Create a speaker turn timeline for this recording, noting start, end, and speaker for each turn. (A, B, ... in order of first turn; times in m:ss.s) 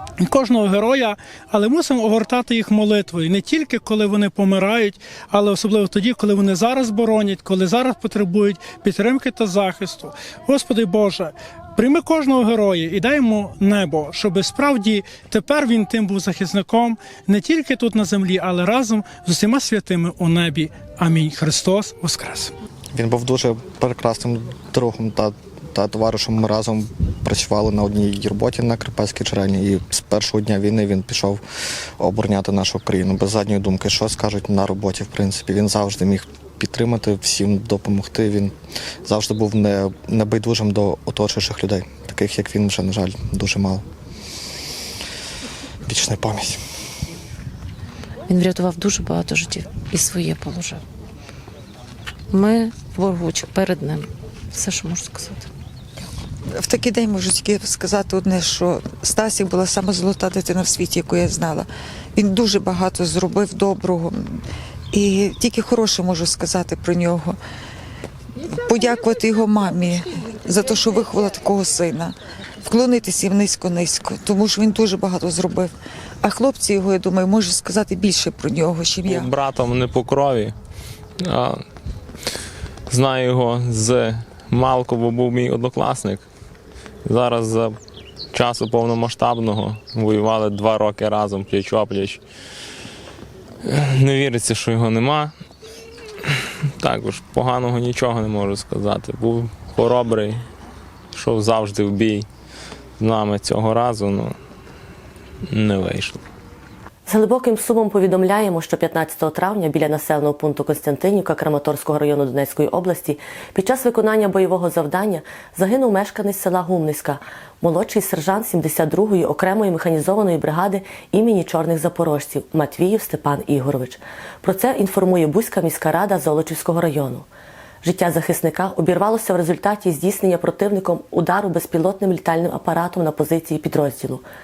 0:00.2-0:22.5 A
0:22.9-0:31.4 B
0:32.0-0:43.8 B
0:45.8-0:46.6 B
0:48.3-0:50.8 C
0:52.3-0:55.5 C
0:56.6-1:07.4 D
1:08.4-1:19.3 D
1:19.0-1:20.5 E
1:21.2-1:21.6 E
1:22.9-1:26.2 E
1:27.0-1:27.8 E
1:28.3-1:32.2 E
1:33.6-1:35.3 E
1:36.8-1:40.4 E
1:41.1-1:42.3 E
1:43.0-1:44.4 E
1:45.5-1:46.2 E
1:47.1-2:07.2 F
2:07.8-2:14.2 F